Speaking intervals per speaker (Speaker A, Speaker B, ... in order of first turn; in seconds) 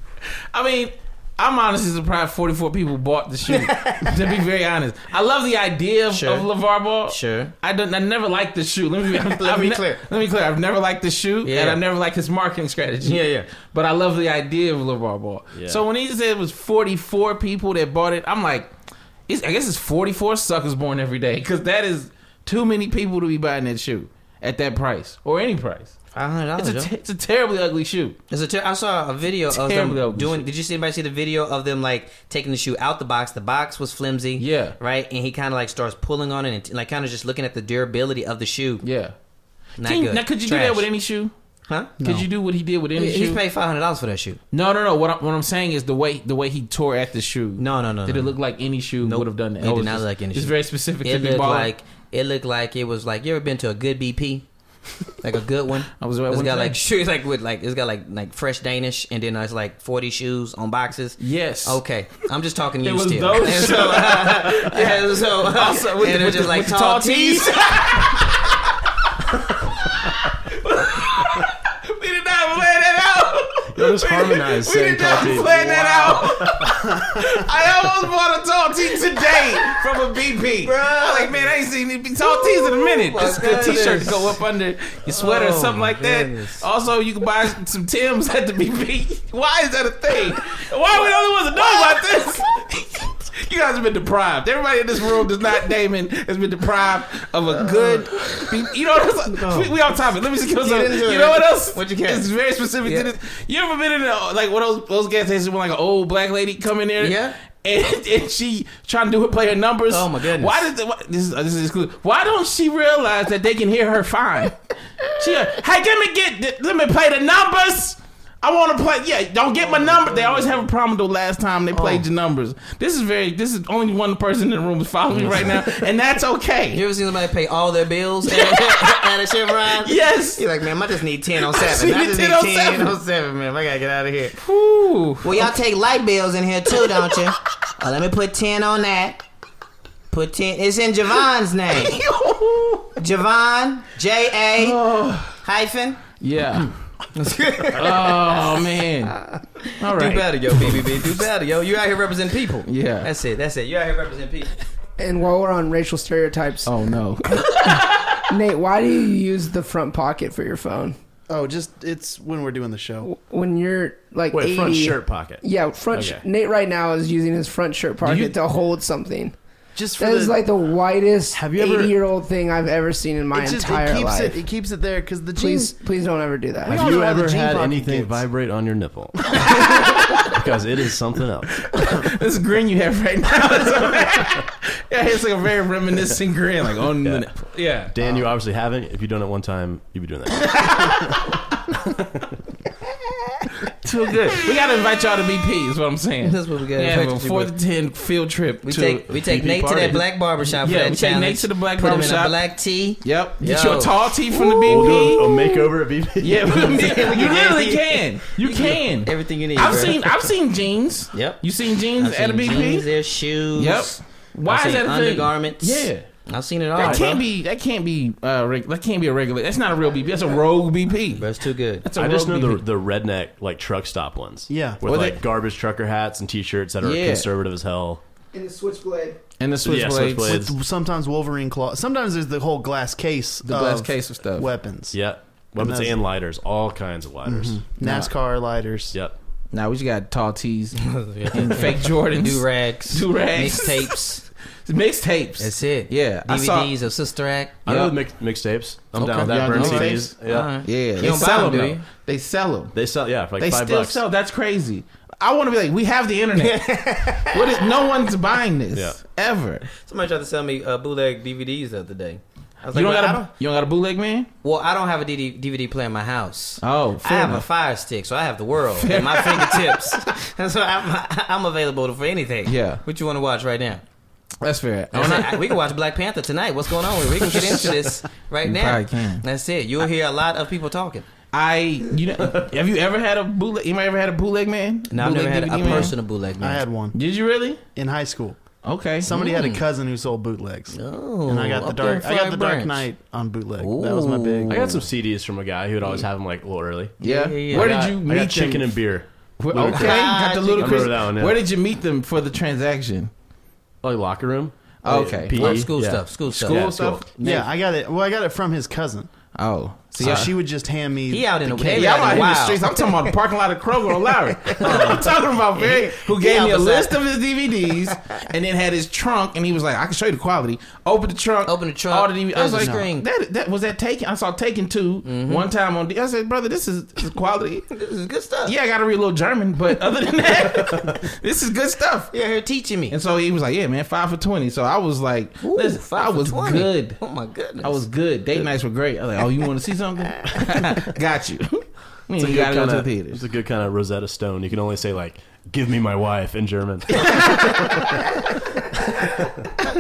Speaker A: 0.5-18.7, 19.3-25.9, 26.6-28.2, 29.5-30.5, 34.4-34.8, 38.8-39.1, 39.8-41.3, 42.0-43.4, 44.5-51.7, 56.0-56.8, 61.2-61.8, 62.8-68.6, 69.9-126.8, 128.3-129.1, 129.7-130.4, 131.4-132.9, 134.4-135.6, 136.8-137.2, 141.7-143.0, 144.6-145.4, 146.2-146.7, 147.8-149.2, 149.8-150.8, 152.7-153.1, 156.7-158.2, 168.0-168.3, 179.4-180.3, 181.7-187.9, 190.6-191.1, 193.8-199.1, 200.6-202.4, 203.0-205.7, 206.2-212.9, 213.6-216.1, 216.8-221.3, 221.8-222.6, 224.8-225.2, 226.8-227.3, 229.4-230.4, 233.5-234.5, 237.8-238.1, 239.5-244.0, 244.7-246.7, 247.7-248.0, 249.0-252.8, 253.4-259.6, 262.7-264.3, 266.6-267.5, 268.8-270.0, 272.5-272.8, 274.4-275.6, 277.2-277.9, 278.4-279.2, 281.3-285.9, 286.9-287.6, 288.6-289.1, 297.0-298.8, 299.4-303.1, 304.8-305.7, 306.3-307.1, 309.4-310.3, 311.5-327.7, 328.4-332.1, 332.9-337.0, 337.6-343.2, 347.0-347.6
Speaker B: 3.5-4.1, 6.1-6.5, 7.1-7.5, 9.2-10.0, 11.4-11.8, 13.0-13.5, 26.1-26.9, 28.3-38.8, 39.8-40.9, 41.7-41.9, 43.0-44.4, 47.6-48.4, 49.0-54.5, 55.2-67.9, 75.1-76.3, 80.6-81.5, 82.2-84.4, 85.1-86.7, 91.6-92.4, 97.5-98.5, 99.3-99.7, 100.6-102.3, 102.8-103.1, 107.0-107.4, 109.9-110.7, 119.6-120.7, 121.7-122.1, 125.1-125.6, 126.7-134.4, 135.2-139.2, 140.1-142.0, 143.0-144.8, 145.4-146.0, 147.2-154.6, 196.2-197.5, 198.6-204.0, 206.5-210.3, 211.1-211.4, 212.0-214.0, 214.5-217.2, 221.2-221.9, 240.8-244.3, 245.4-247.6, 249.0-251.8, 256.4-257.6, 259.8-263.3, 264.4-273.8, 274.9-281.1, 284.9-286.6, 289.1-289.6, 290.7-292.9, 293.6-294.8, 297.0-297.7, 299.6-300.9, 305.3-307.4, 311.1-313.1, 314.4-317.0, 321.5-323.1, 325.1-325.5, 327.7-328.5, 332.1-332.9, 335.4-337.9, 340.2-340.9
Speaker C: 15.6-15.8, 73.7-76.7, 164.3-166.2, 171.3-171.9, 176.7-181.7, 187.9-192.3, 198.8-200.0, 204.4-206.9, 216.8-217.2, 222.0-228.0, 229.6-230.5, 234.9-237.6, 247.7-250.5, 252.7-254.0, 294.5-297.0, 297.5-300.0, 300.6-301.4, 303.8-307.1, 330.6-331.0, 342.2-348.0, 349.0-349.3
Speaker D: 42.0-42.3, 161.3-163.1, 169.8-170.4, 173.3-175.8, 176.7-178.3, 224.5-224.8, 230.2-235.0, 235.6-236.0, 237.2-238.9, 286.4-287.0, 287.8-288.4, 289.0-294.7, 307.1-309.1, 310.0-311.3
Speaker E: 155.0-161.0, 163.0-169.4, 170.0-174.4, 175.4-176.8, 228.3-229.2